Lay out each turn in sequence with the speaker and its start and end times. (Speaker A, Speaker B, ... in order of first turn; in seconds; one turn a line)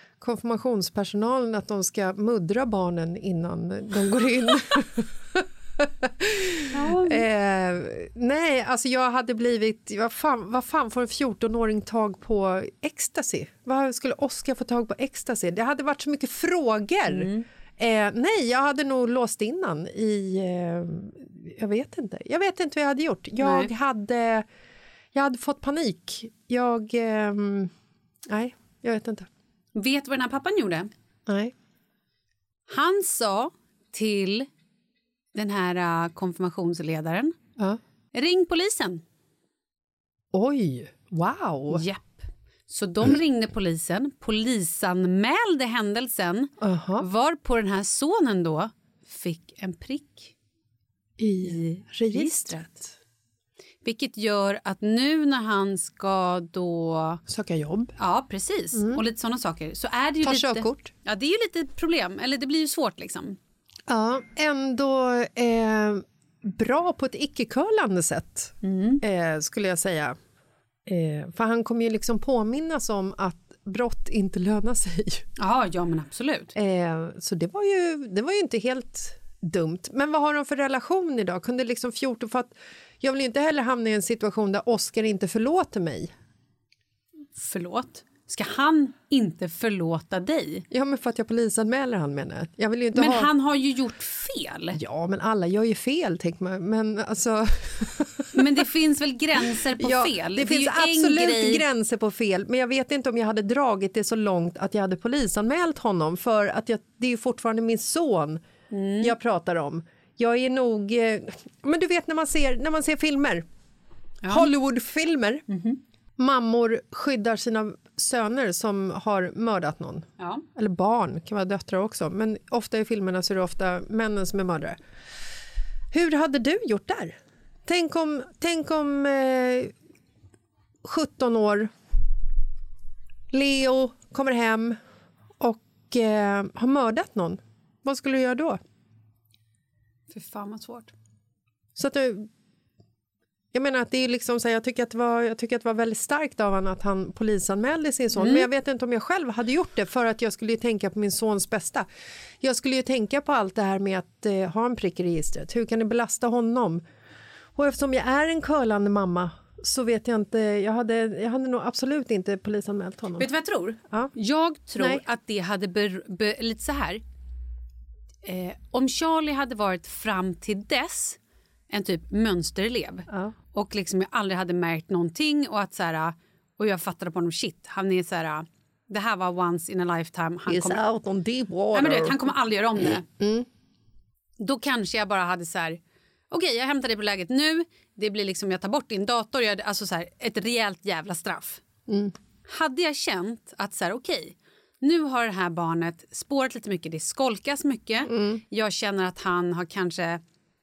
Speaker A: 0.2-24.4
Speaker B: 6.7-7.2
Speaker B: 17.1-17.5
Speaker B: 23.4-23.7
Speaker A: 25.1-27.7
Speaker A: 28.3-29.3
Speaker B: 29.7-30.9
Speaker A: 31.3-31.5
Speaker B: 32.7-34.5
Speaker B: 35.3-37.3
Speaker B: 38.1-39.0
Speaker A: 40.3-41.8
Speaker B: 41.7-50.3
Speaker A: 46.6-47.0
Speaker A: 51.2-52.9
Speaker B: 51.4-52.6
Speaker B: 53.8-57.2
Speaker A: 57.3-57.9
Speaker B: 58.0-63.4
Speaker A: 58.7-59.0
Speaker A: 60.2-60.9
Speaker A: 63.9-70.1
Speaker B: 68.6-69.0
Speaker A: 70.9-75.2
Speaker B: 75.4-76.5
Speaker A: 76.5-86.1
Speaker B: 87.3-90.6
Speaker A: 90.7-93.3
Speaker B: 92.9-94.8
Speaker A: 94.7-98.4
Speaker B: 98.3-101.6
Speaker A: 99.5-108.4
Speaker B: 108.7-109.1
Speaker A: 109.0-113.4
Speaker B: 114.2-114.5
Speaker A: 114.3-115.4
Speaker B: 115.5-115.8
Speaker A: 116.2-124.8
Speaker B: 120.2-120.4
Speaker A: 125.9-127.1
Speaker A: 127.7-129.7
Speaker A: 130.8-131.7
Speaker A: 133.3-134.8
Speaker A: 135.4-138.6
Speaker B: 140.1-140.9
Speaker A: 141.8-142.3
Speaker A: 143.5-151.8
Speaker B: 148.2-148.5
Speaker A: 152.4-156.8
Speaker A: 157.6-163.3
Speaker B: 163.2-167.0
Speaker A: 164.8-165.0
Speaker B: 168.2-171.2
Speaker B: 171.7-180.8
Speaker A: 180.5-182.2
Speaker B: 181.7-183.0
Speaker A: 182.9-183.4
Speaker B: 184.4-191.6
Speaker A: 191.9-192.1
Speaker B: 192.4-200.2
Speaker A: 198.1-198.4